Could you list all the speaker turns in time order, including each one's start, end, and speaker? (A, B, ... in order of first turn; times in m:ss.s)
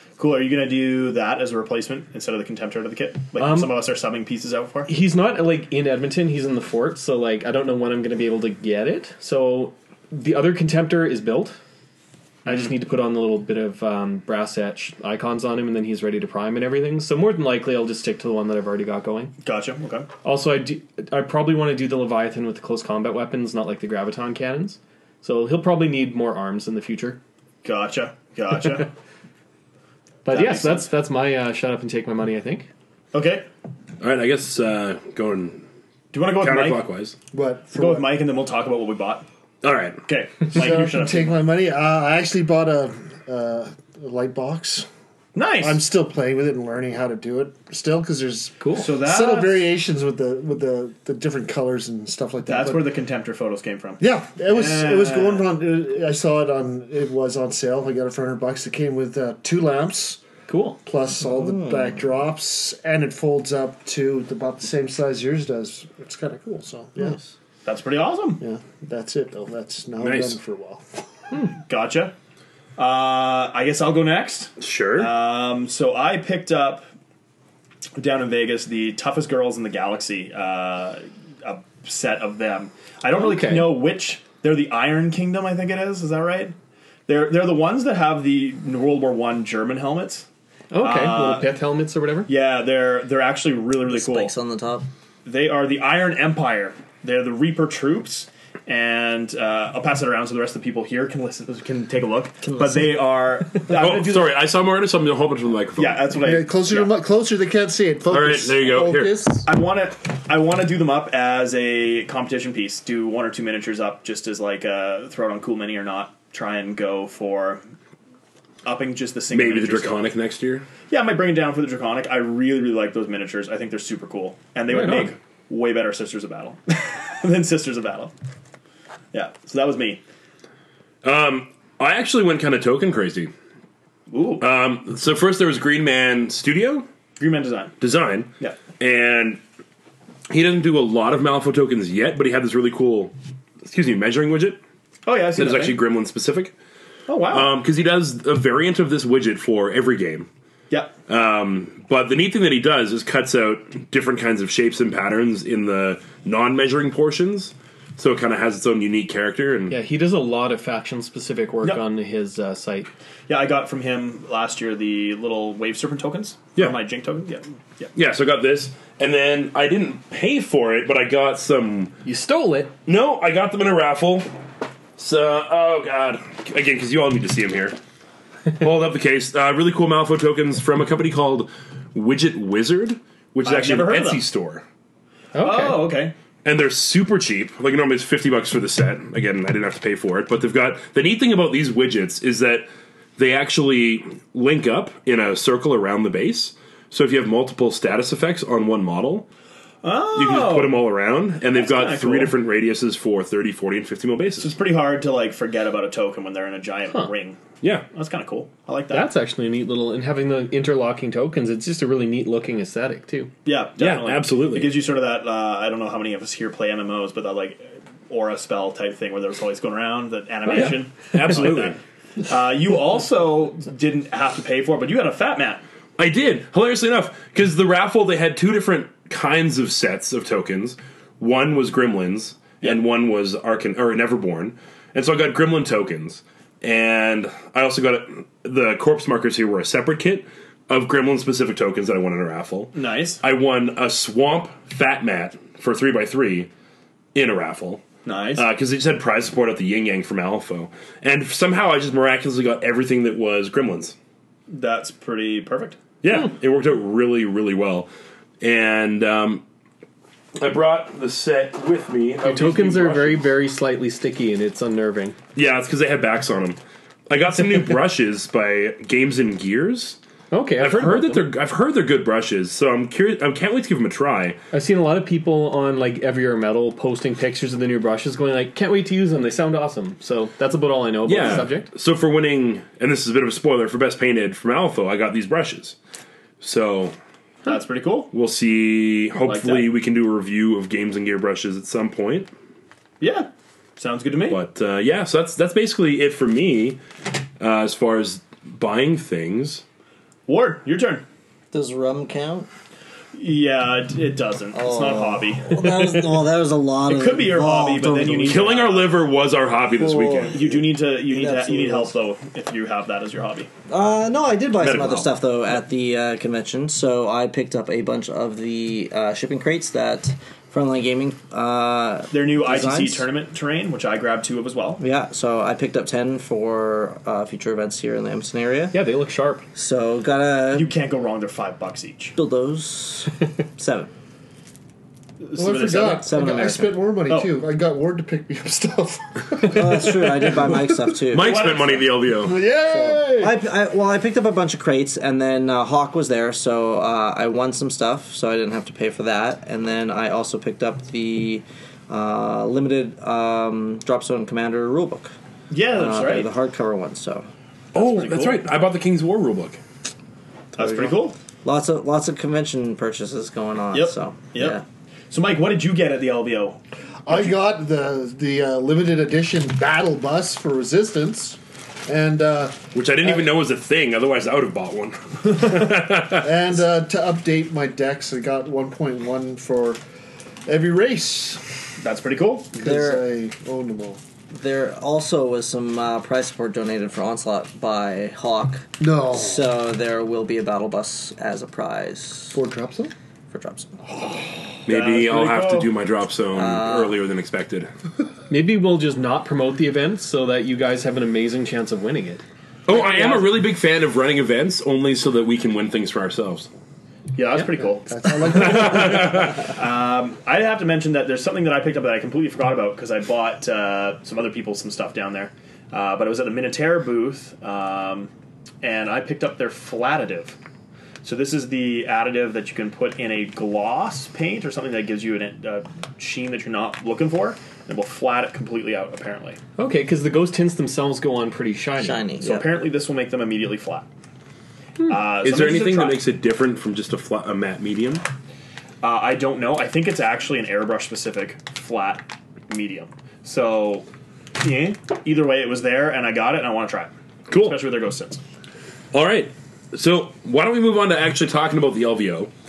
0:00.2-0:04.9 A
0:03.4-0:03.8 B
0:04.9-0:11.6 B
0:12.4-0:19.3 B
0:19.4-0:20.1 A
0:20.2-0:27.2 B
0:27.6-0:28.9 A
0:30.2-0:32.7 B
0:30.3-0:30.9 A
0:33.1-0:33.5 A
0:34.0-0:35.6 C
0:36.1-0:36.8 A
0:36.4-0:37.2 C
0:37.3-0:38.1 D
0:37.7-0:39.2 A
0:39.6-0:40.0 C
0:40.0-0:41.4 A
0:40.5-0:44.9 D
0:45.3-0:45.8 A
0:45.6-0:52.9 D
0:48.6-0:48.9 B
0:48.7-0:49.6 A
0:52.5-0:55.5 A
0:54.0-1:00.2 D
1:00.5-1:00.8 B
1:00.8-1:07.2 D
1:01.2-1:02.0 E
1:07.0-1:07.3 E
1:07.6-1:08.4 A
1:08.4-1:11.0 D
1:10.0-1:10.4 C
1:11.6-1:12.1 A
1:12.8-1:16.8 A
1:14.6-1:15.1 C
1:18.0-1:26.5 A
1:23.1-1:23.7 B
1:27.1-1:30.2 A
1:30.7-1:32.3 B
1:30.8-1:31.5 A
1:32.3-1:34.3 A
1:33.9-1:34.9 E
1:35.2-1:44.3 A
1:42.4-1:42.9 E
1:43.7-1:46.1 C
1:45.8-1:46.9 A
1:46.2-1:49.5 D
1:48.1-1:49.3 C
1:49.4-1:57.6 A
1:58.6-2:00.0 A
1:59.3-2:00.6 C
2:00.9-2:08.1 A
2:04.7-2:05.1 B
2:09.1-2:10.0 A
2:11.0-2:13.3 C
2:14.1-2:14.4 A
2:14.4-2:16.8 C
2:17.2-2:17.7 A
2:17.8-2:19.4 C
2:20.3-2:24.6 C
2:25.0-2:25.8 A
2:25.4-2:26.5 C
2:27.1-2:27.5 A
2:27.3-2:30.3 C
2:31.1-2:39.8 C
2:39.7-2:42.9 B
2:43.3-2:47.9 A
2:47.9-2:51.9 C
2:52.0-2:52.7 B
2:52.8-2:54.3 C
2:55.0-2:57.7 C
2:58.5-3:04.6 C
3:03.4-3:04.2 A
3:05.3-3:05.9 B
3:05.4-3:06.1 A
3:06.4-3:19.3 C
3:19.8-3:20.8 A
3:20.2-3:24.5 C
3:21.5-3:22.4 A
3:24.4-3:29.1 A
3:28.9-3:33.3 B
3:33.4-3:45.6 A
3:33.8-3:34.7 C
3:40.5-3:41.8 C
3:46.0-4:06.5 C
4:02.7-4:03.2 A
4:07.1-4:07.8 C
4:08.0-4:08.4 A
4:08.4-4:13.9 C
4:14.5-4:15.8 A
4:16.0-4:17.9 C
4:18.4-4:19.4 C
4:20.4-4:23.3 C
4:22.2-4:25.2 B
4:25.3-4:30.0 C
4:30.3-4:31.3 B
4:30.6-4:34.4 C
4:34.5-4:41.7 B
4:41.0-4:45.8 C
4:46.4-4:46.9 C
4:47.4-4:48.1 A
4:48.1-4:52.3 C
4:49.2-4:49.7 A
4:53.0-4:54.4 A
4:54.3-4:56.8 C
4:57.4-4:59.6 C
5:00.3-5:01.0 A
5:01.5-5:02.5 E
5:03.1-5:05.6 A
5:04.5-5:08.6 E
5:06.9-5:08.9 A
5:08.2-5:10.4 C
5:09.7-5:12.0 E
5:10.3-5:13.5 A
5:13.7-5:23.1 E
5:14.6-5:15.1 C
5:22.1-5:24.8 A
5:24.8-5:28.8 E
5:28.7-5:29.4 B
5:29.5-5:30.7 E
5:30.5-5:32.2 A
5:32.2-5:33.9 E
5:35.2-5:36.1 A
5:35.4-5:41.0 D
5:36.0-5:36.8 E
5:37.1-5:37.4 A
5:39.4-5:41.5 E
5:41.1-5:42.4 C
5:41.2-5:41.9 A
5:42.2-5:43.4 D
5:42.6-5:55.1 E
5:55.5-5:56.3 A
5:55.7-5:57.3 E
5:57.7-5:58.4 A
5:57.7-5:59.6 C
6:00.5-6:01.2 A
6:00.6-6:04.6 E
6:03.7-6:06.6 A
6:07.0-6:13.3 D
6:12.7-6:16.5 C
6:16.1-6:19.8 D
6:20.4-6:21.4 D
6:21.8-6:22.6 A
6:22.6-6:24.0 D
6:22.6-6:23.1 E
6:24.3-6:32.4 E
6:28.8-6:29.5 D
6:32.3-6:32.9 D
6:33.3-6:33.8 E
6:33.9-6:34.3 D
6:34.6-6:37.7 C
6:34.7-6:35.7 A
6:36.3-6:37.0 E
6:38.3-6:43.3 B
6:42.6-6:46.5 C
6:47.1-6:58.1 A
6:47.8-6:49.4 D
6:48.3-6:49.5 C
6:58.6-7:00.4 A
7:01.0-7:09.4 A
7:09.6-7:12.1 B
7:11.8-7:12.4 E
7:12.2-7:13.9 A
7:14.8-7:16.0 A
7:15.2-7:18.0 C
7:18.8-7:23.8 A
7:24.4-7:28.2 A
7:27.3-7:27.6 C
7:28.9-7:32.3 C